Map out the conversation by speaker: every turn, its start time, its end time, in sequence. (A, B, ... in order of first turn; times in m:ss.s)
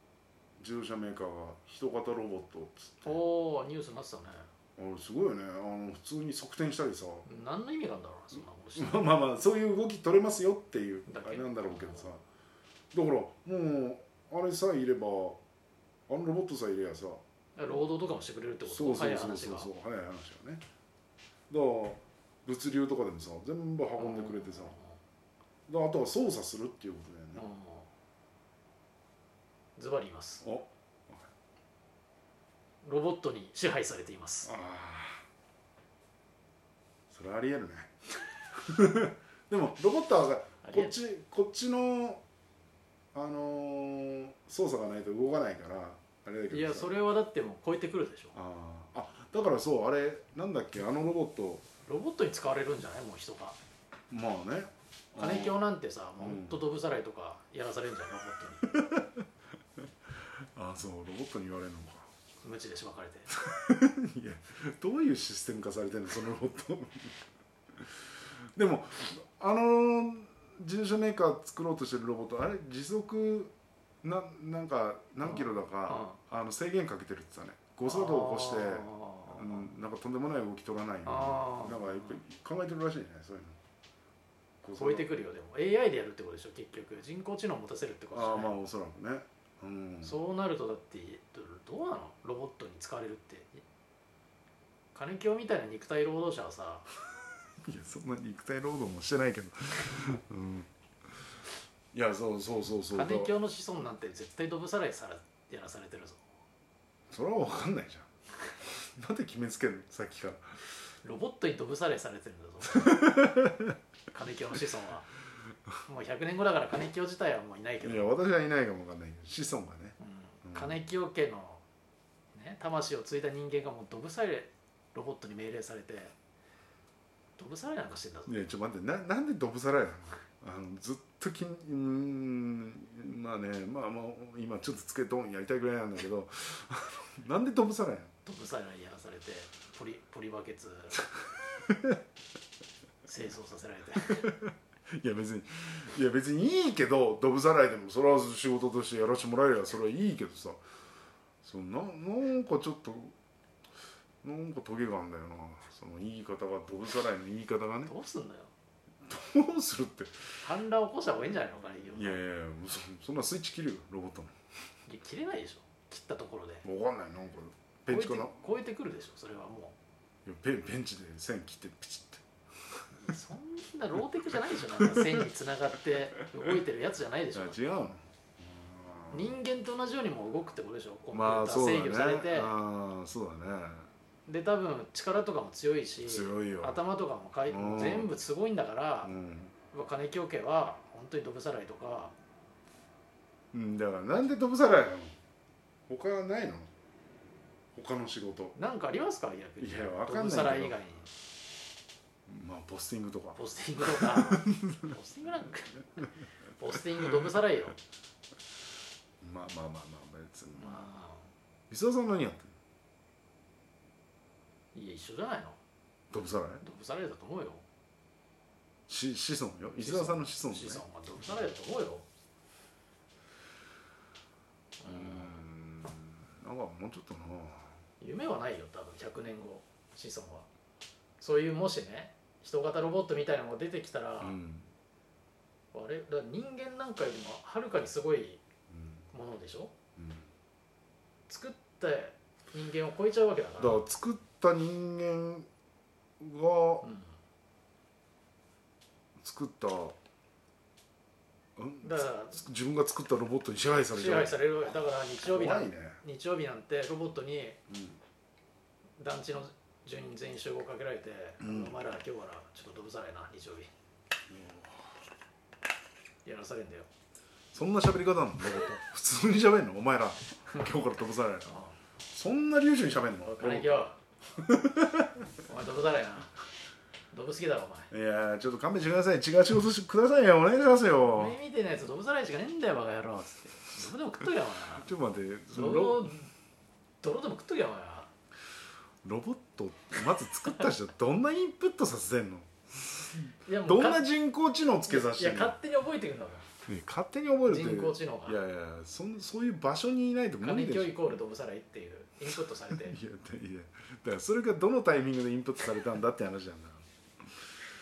0:00.6-0:03.2 A
0:03.0-0:04.5 B
0:04.8-0:07.3 A
0:07.3-0:09.2 B
0:08.8-0:12.2 A
0:11.1-0:12.1 B
0:12.9-0:15.4 A
0:16.1-0:17.2 A
0:17.6-0:19.7 B
0:18.7-0:20.6 A
0:21.5-0:24.8 A
0:24.0-0:25.0 B
0:25.7-0:27.4 A
0:27.4-0:27.9 B
0:29.8-0:30.4 B
0:30.4-0:31.3 A
0:32.8-0:34.5 B
0:34.4-0:35.2 A
0:37.1-0:38.0 A
0:38.5-0:42.2 A
0:40.6-0:40.9 B
0:43.1-0:46.9 A
0:46.5-0:48.4 B
0:48.3-0:51.7 A
0:51.9-0:53.6 B
0:54.1-0:55.6 A
0:55.2-0:58.7 B
0:56.2-0:56.6 A
0:58.7-0:59.1 A
1:00.6-1:02.1 A
1:02.4-1:03.3 B
1:03.3-1:07.2 A
1:08.6-1:23.6 A
1:15.2-1:16.2 B
1:17.9-1:19.7 B
1:21.0-1:22.2 B
1:24.6-1:25.1 A
1:24.8-1:28.6 B
1:28.1-1:30.2 A
1:30.0-1:33.6 B
1:34.9-1:36.9 B
1:37.6-1:40.7 A
1:41.9-1:43.3 A
1:42.9-1:46.2 B
1:47.1-1:48.1 A
1:48.7-1:50.7 A
1:51.0-1:53.2 B
1:52.7-1:53.8 A
1:54.1-1:55.1 B
1:55.9-1:58.1 B
1:57.8-2:00.8 A
2:00.0-2:01.6 B
2:02.3-2:06.1 B
2:07.4-2:08.3 B
2:08.3-2:18.1 A
2:18.3-2:21.0 B
2:21.7-2:22.0 A
2:23.1-2:24.3 B
2:24.2-2:30.6 A
2:31.4-2:33.2 A
2:34.2-2:37.9 A
2:37.9-2:38.5 B
2:39.1-2:40.4 A
2:40.4-2:42.2 B
2:41.9-2:44.3 A
2:44.9-2:46.6 B
2:46.6-2:48.4 A
2:47.9-2:49.8 B
2:50.3-2:52.2 A
2:53.0-2:57.6 B
2:54.5-2:55.2 A
2:57.3-2:59.4 A
2:59.1-3:02.5 B
3:01.1-3:03.9 A
3:04.3-3:09.1 B
3:06.1-3:06.8 A
3:07.5-3:08.1 A
3:09.0-3:09.5 A
3:09.7-3:12.1 B
3:13.5-3:15.2 A
3:15.9-3:16.7 A
3:17.8-3:18.6 A
3:18.6-3:21.1 B
3:19.6-3:20.8 A
3:22.3-3:24.9 A
3:23.4-3:26.1 B
3:26.6-3:27.8 B
3:29.2-3:30.8 A
3:30.6-3:31.3 B
3:31.7-3:32.5 A
3:34.7-3:35.6 B
3:36.1-3:36.6 A
3:36.6-3:37.6 B
3:38.9-3:40.8 A
3:39.8-3:42.1 B
3:44.8-3:45.4 B
3:44.8-3:47.8 A
3:48.0-3:50.5 B
3:51.2-3:54.4 B
3:54.2-3:54.7 A
3:55.7-3:58.4 B
3:58.7-3:59.0 A
3:59.1-3:59.7 B
4:00.0-4:00.3 A
4:01.3-4:03.8 B
4:03.6-4:05.5 A
4:06.2-4:06.9 A
4:09.2-4:10.0 A
4:11.6-4:14.4 A
4:11.8-4:12.4 B
4:13.8-4:17.6 B
4:15.2-4:16.0 A
4:17.7-4:18.0 A
4:19.0-4:23.7 B
4:21.4-4:21.8 A
4:24.3-4:24.9 A
4:26.2-4:26.9 B
4:27.5-4:33.8 A
4:31.5-4:31.7 B
4:33.2-4:34.0 B
4:34.4-4:35.3 A
4:35.4-4:36.3 B
4:37.1-4:37.9 B
4:37.9-4:41.4 A
4:41.1-4:44.9 B
4:44.7-4:46.2 A
4:45.5-4:46.3 B
4:47.0-4:48.1 B
4:49.0-4:55.6 A
4:53.4-4:54.0 B
4:54.9-4:56.5 B
4:56.7-5:01.0 A
4:57.4-4:58.4 B
5:00.4-5:03.0 B
5:02.7-5:06.9 A